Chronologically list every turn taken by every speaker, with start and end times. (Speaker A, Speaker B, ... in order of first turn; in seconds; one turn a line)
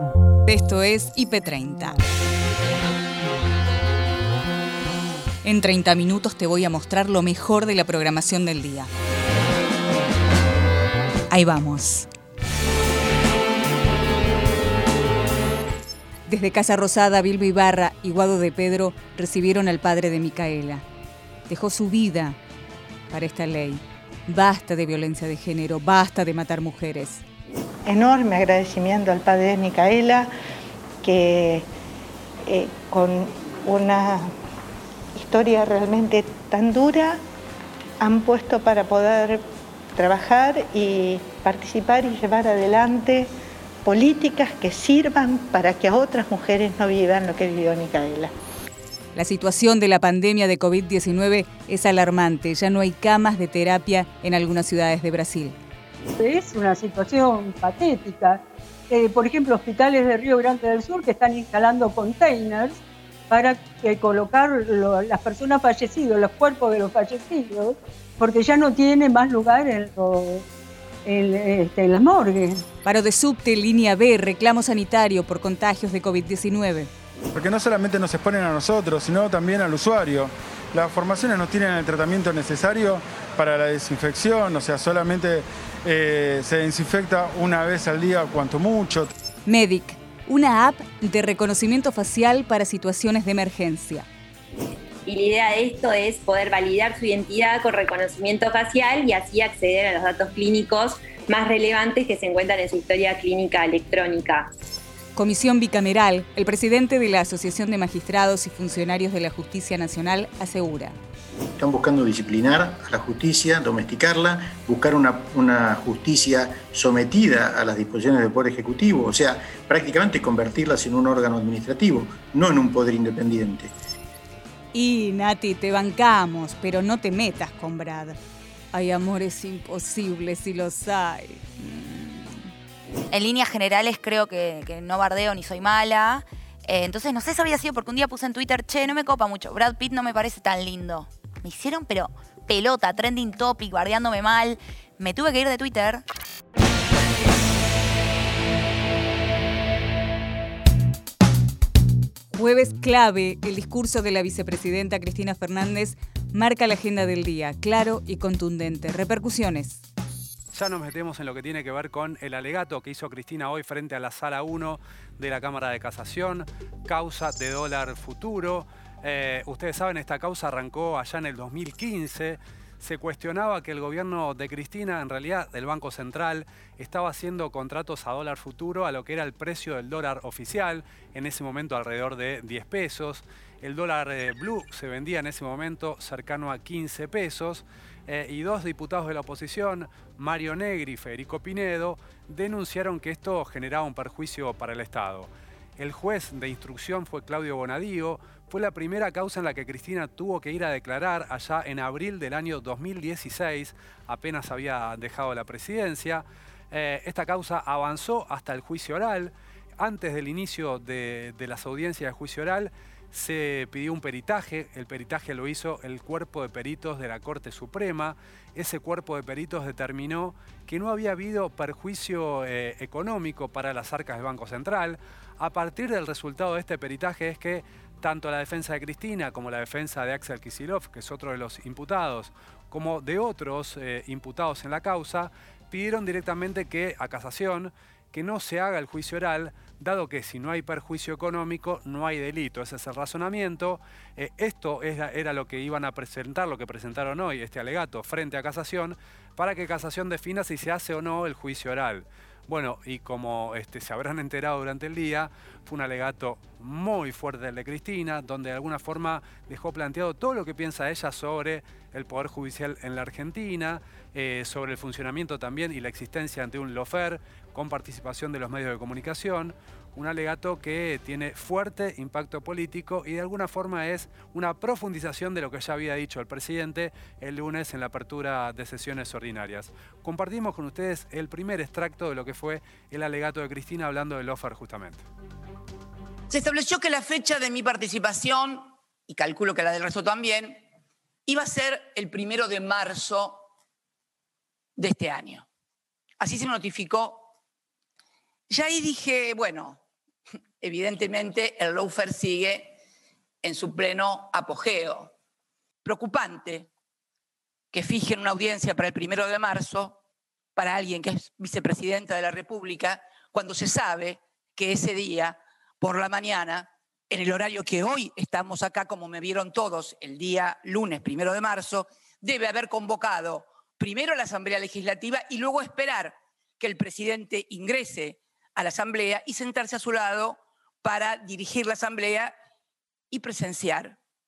Speaker A: 0.5-2.0
Speaker A: 5.4-8.9
Speaker A: 11.3-12.1
Speaker A: 16.3-20.8
Speaker A: 21.5-22.4
Speaker A: 23.1-27.2
Speaker B: 27.9-30.3
Speaker B: 31.0-31.7
Speaker B: 32.5-34.3
Speaker B: 35.1-37.2
Speaker B: 38.0-39.4
Speaker B: 40.0-43.3
Speaker B: 43.9-48.3
Speaker A: 49.1-55.6
Speaker C: 56.2-70.5
Speaker C: 71.0-72.6
Speaker A: 72.8-76.9
Speaker D: 77.3-89.1
Speaker A: 89.5-94.1
Speaker E: 95.1-104.5
Speaker A: 105.2-111.0
Speaker F: 111.6-123.7
Speaker A: 124.7-128.2
Speaker A: 128.7-132.5
Speaker G: 133.1-146.0
Speaker A: 152.3-159.8
Speaker H: 160.5-285.1
Speaker I: 286.3-290.6
Speaker I: 291.3-293.5
Speaker I: 294.8-295.4
Speaker I: 296.2-297.3
Speaker I: 298.5-299.8
Speaker I: 300.6-302.8
Speaker I: 303.4-305.1
Speaker I: 305.8-306.7
Speaker I: 307.7-310.0
Speaker I: 310.6-332.3
Speaker I: 333.1-334.0